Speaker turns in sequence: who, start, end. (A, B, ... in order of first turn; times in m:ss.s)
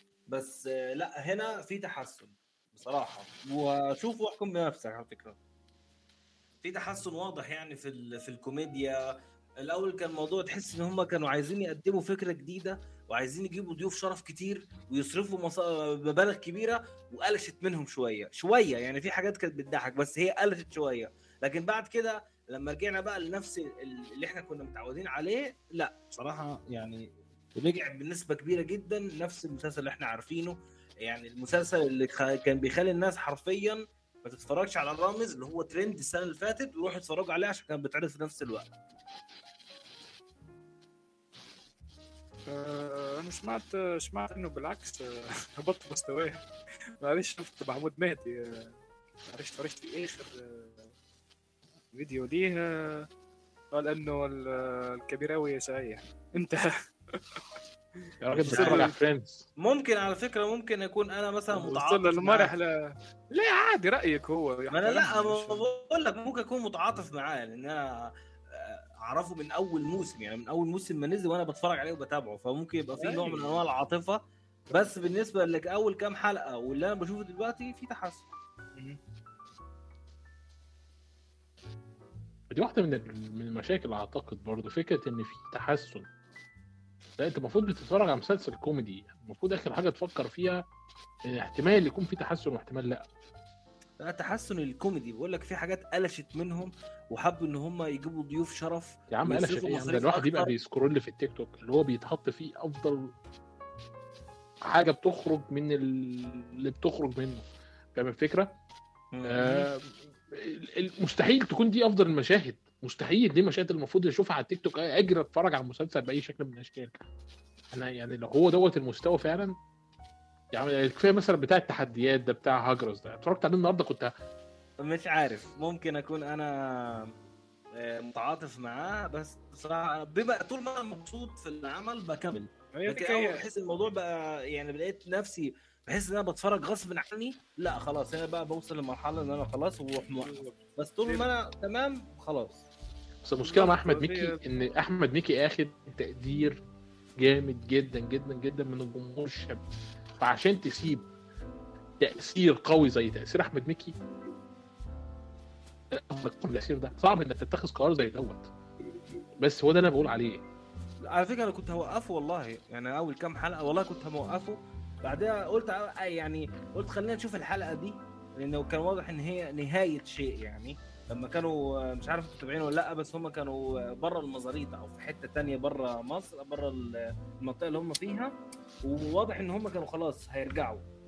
0:00.3-0:05.4 A
0:06.6-0:09.0 A
0:09.6-0:38.7 A
0:42.5-0:46.4 B
0:47.0-0:48.7 B
0:49.3-0:50.9 B
0:51.9-0:53.1 B
0:53.7-0:57.4 B
0:58.2-0:59.5 C
0:58.4-0:58.9 A
0:58.5-0:58.9 B
0:59.6-1:02.5 A
1:01.5-1:05.6 B
1:04.7-1:18.3 A
1:13.0-1:13.6 B
1:22.5-1:26.1 C
1:27.2-1:30.6 C
1:31.3-1:33.1 C
1:34.0-1:40.5 A
1:39.1-1:43.1 C
1:44.6-1:48.6 C
1:49.1-1:49.5 A
1:49.3-1:56.9 C
1:57.7-1:59.5 C
2:00.5-2:04.1 C
2:04.8-2:07.2 A
2:07.7-2:22.6 A
2:12.7-2:13.4 B
2:20.2-2:21.3 B
2:23.2-2:26.6 C
2:23.4-2:24.4 B
2:27.2-2:29.6 C
2:30.2-2:31.1 C
2:32.0-2:34.0 C
2:35.9-2:38.5 C
2:39.4-2:40.4 C
2:41.1-3:00.8 A